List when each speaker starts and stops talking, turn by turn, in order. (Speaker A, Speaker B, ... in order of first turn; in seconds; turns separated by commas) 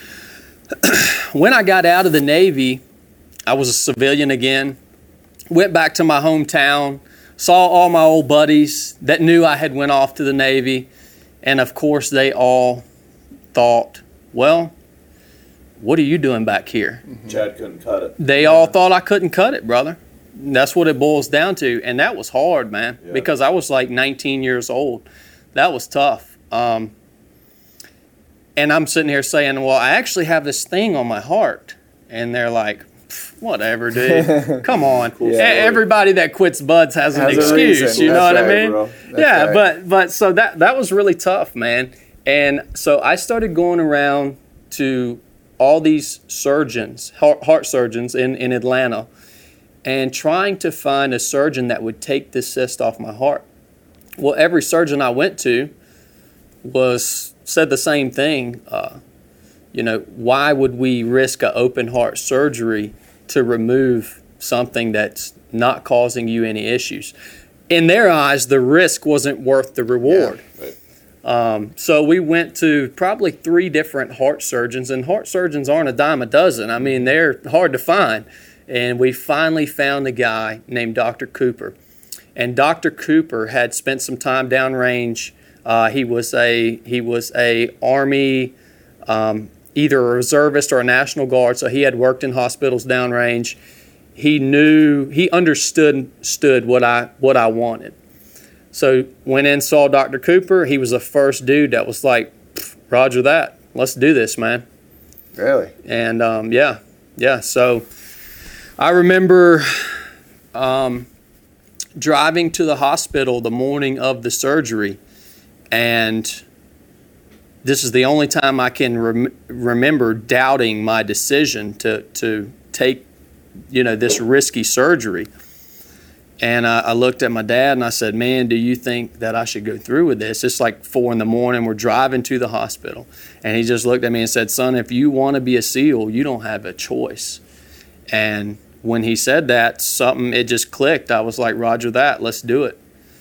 Speaker A: 0.8-2.8, Speaker A: 3.5-4.8, Speaker A: 5.5-10.9, Speaker A: 11.4-12.8, Speaker A: 13.5-14.7, Speaker A: 15.8-17.0, Speaker B: 17.2-18.6, Speaker A: 18.2-26.9, Speaker A: 28.6-49.1, Speaker C: 34.1-34.6, Speaker B: 34.7-35.8, Speaker C: 35.2-35.6, Speaker C: 37.1-39.6, Speaker B: 37.2-39.0, Speaker A: 49.8-53.4, Speaker A: 54.2-55.7, Speaker A: 56.6-59.0, Speaker A: 59.7-67.1, Speaker A: 67.7-70.4, Speaker B: 70.1-70.8, Speaker A: 71.2-81.8, Speaker A: 82.4-88.5, Speaker A: 89.1-93.6, Speaker A: 94.2-98.0, Speaker A: 98.7-104.6, Speaker C: 105.4-105.7, Speaker A: 105.8-107.9, Speaker A: 108.8-110.0, Speaker A: 110.5-111.1, Speaker A: 112.0-115.0, Speaker A: 115.7-116.4, Speaker A: 117.6-123.1, Speaker A: 123.7-125.3, Speaker A: 126.4-137.4, Speaker A: 138.1-142.8